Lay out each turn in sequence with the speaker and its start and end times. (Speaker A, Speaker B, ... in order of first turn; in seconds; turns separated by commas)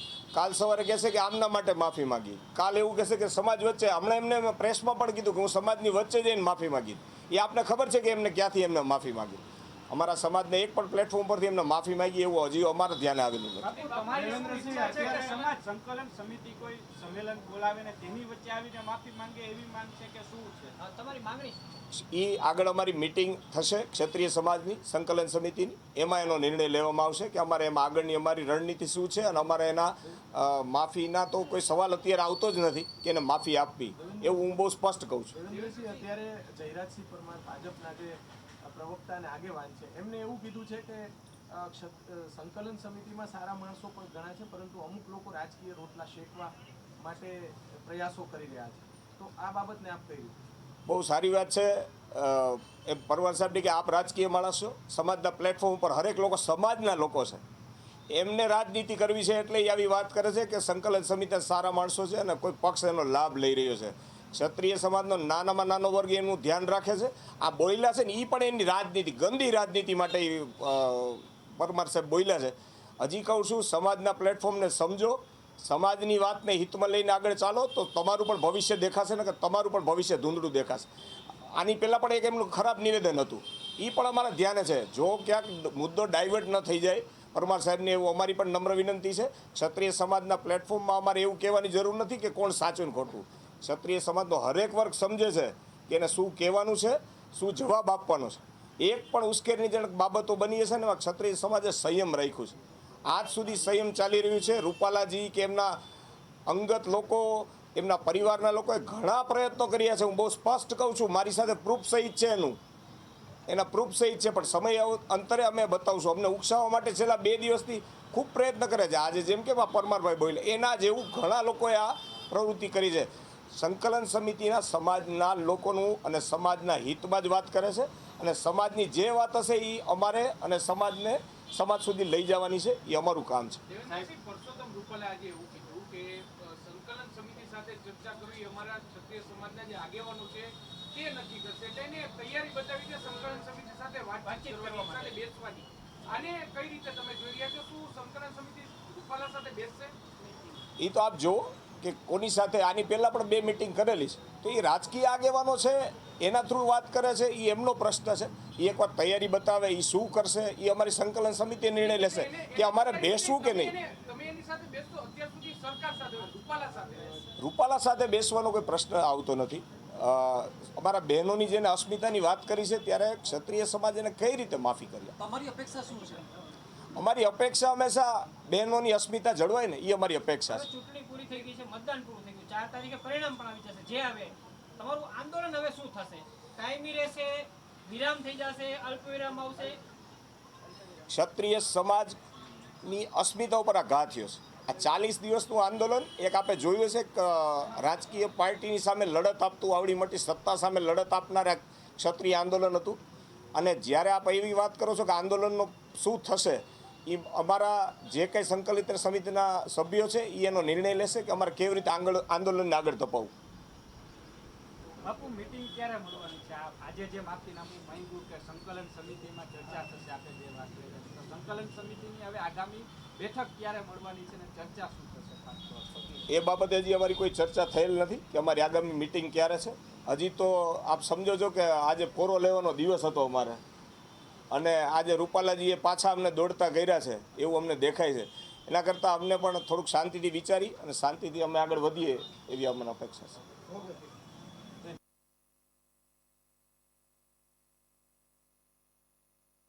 Speaker A: 0.3-13.8, Speaker B: 13.6-20.8, Speaker C: 13.7-15.6, Speaker D: 14.2-14.8, Speaker C: 20.8-21.8, Speaker A: 21.9-35.3, Speaker E: 34.0-34.4, Speaker E: 35.3-50.4, Speaker D: 35.5-36.0, Speaker A: 50.9-57.4, Speaker A: 58.1-80.9, Speaker A: 81.5-105.8, Speaker A: 106.5-112.6, Speaker A: 113.5-133.6, Speaker D: 133.7-136.1, Speaker D: 136.7-149.9, Speaker C: 144.2-145.2, Speaker A: 150.8-163.8, Speaker D: 162.1-167.1, Speaker A: 167.4-175.2, Speaker C: 175.2-176.3, Speaker A: 176.9-180.7, Speaker C: 180.4-189.8, Speaker A: 191.1-192.2, Speaker A: 192.8-203.0, Speaker A: 203.6-213.3, Speaker B: 215.0-226.2, Speaker A: 226.3-233.6, Speaker A: 234.5-243.4